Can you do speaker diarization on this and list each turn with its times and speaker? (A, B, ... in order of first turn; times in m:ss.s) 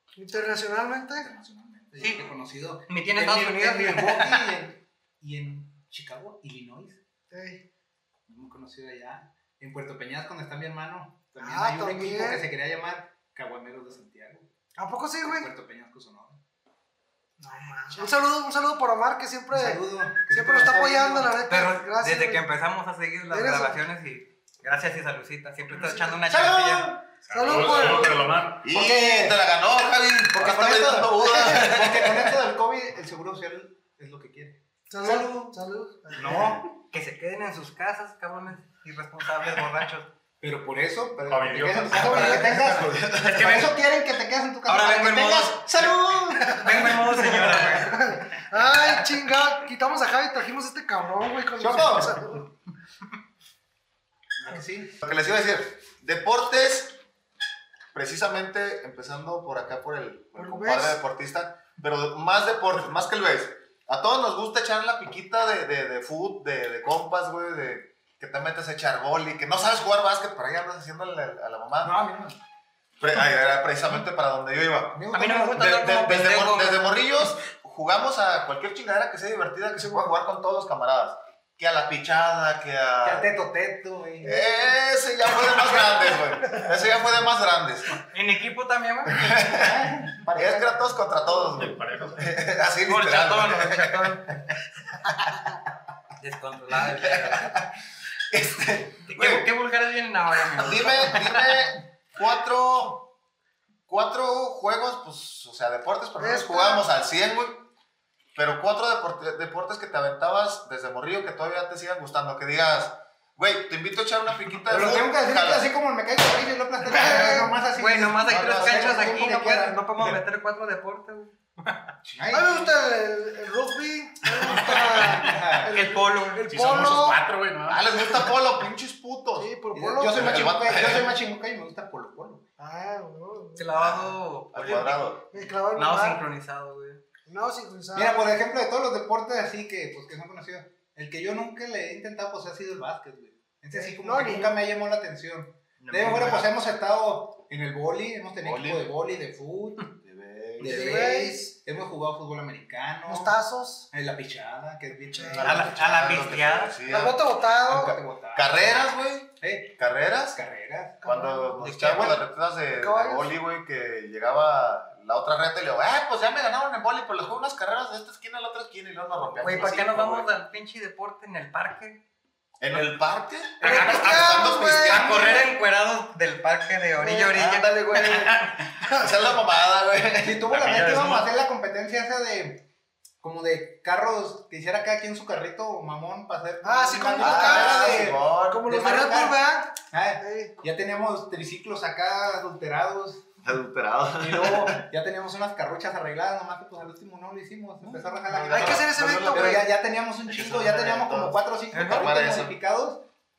0:00.2-0:01.3 A
0:01.2-0:07.0 B
0:02.0-0:02.3 C
0:02.9-0:04.5 C
0:07.3-0:07.6 A
0:08.3-0:14.5 B
0:11.4-0:12.4 A
0:14.8-0:15.5 A
0:15.2-0:16.4 B
0:17.4-0:22.4 A
0:19.5-0:21.4 B
0:21.4-0:26.9 C
0:23.3-0:23.8 A
0:25.9-0:28.1 B
0:27.2-0:28.6 D
0:27.3-0:28.4 A
0:28.6-0:32.3 E
0:28.6-0:29.4 B
0:30.4-0:35.6 B
0:34.9-0:36.4 A
0:36.1-0:36.6 B
0:36.2-0:40.1 C
0:40.4-0:47.8 B
0:41.3-0:42.5 D
0:42.0-0:42.9 A
0:42.6-0:43.8 C
0:42.9-0:43.5 E
0:44.6-0:48.4 C
0:46.3-0:52.4 A
0:51.6-0:52.4 B
0:54.4-0:55.0 B
0:55.0-0:57.0 E
0:57.9-1:12.0 E
1:00.3-1:01.0 A
1:11.8-1:12.4 B
1:13.0-1:23.3 E
1:14.9-1:15.7 B
1:15.1-1:17.0 C
1:23.0-1:24.6 B
1:24.2-1:28.0 E
1:28.1-1:29.2 C
1:29.0-1:34.4 E
1:29.4-1:31.6 B
1:31.6-1:32.2 D
1:32.8-1:34.4 C
1:36.2-1:37.6 C
1:36.9-1:37.7 E
1:38.3-1:39.5 E
1:39.1-1:41.6 C
1:40.6-1:43.1 E
1:43.9-1:47.7 E
1:46.2-1:46.8 A
1:48.3-1:55.7 E
1:54.7-2:00.2 B
1:56.8-1:57.6 A
1:57.7-2:01.9 C
1:58.2-1:59.2 E
2:02.0-2:02.4 E
2:02.2-2:02.7 B
2:02.3-2:07.2 A
2:04.3-2:05.3 D
2:05.2-2:05.7 B
2:05.7-2:06.8 C
2:06.5-2:08.2 D
2:07.6-2:09.5 E
2:09.3-2:10.4 A
2:09.7-2:12.4 B
2:10.1-2:11.2 E
2:12.6-2:13.7 A
2:13.6-2:15.2 C
2:13.7-2:15.3 E
2:15.3-2:16.2 A
2:15.7-2:17.0 C
2:17.2-2:18.2 A
2:17.9-2:29.9 B
2:23.7-2:24.5 A
2:25.8-2:26.5 C
2:28.4-2:28.9 E
2:30.0-2:30.9 E
2:30.6-2:33.4 B
2:30.6-2:31.5 A
2:33.1-2:33.9 A
2:33.9-2:35.9 B
2:35.2-2:35.5 A
2:35.2-2:40.4 E
2:35.4-2:36.8 C
2:36.8-2:38.0 A
2:37.7-2:38.9 B
2:39.4-2:39.7 B
2:40.3-2:41.0 B
2:41.0-2:50.3 E
2:41.0-2:41.5 A
2:41.6-2:42.2 C
2:42.7-2:43.3 A
2:49.4-2:52.0 C
2:52.6-2:55.5 E
2:53.6-2:55.3 A
2:53.6-2:58.6 C
2:57.1-3:00.5 E
3:00.2-3:02.6 B
3:00.5-3:01.3 D
3:03.2-3:13.3 B
3:06.6-3:10.5 A
3:07.2-3:08.7 E
3:13.4-3:14.8 E
3:14.2-3:23.0 B
3:17.8-3:19.7 E
3:18.5-3:19.7 A
3:20.2-3:22.5 E
3:21.7-3:22.1 C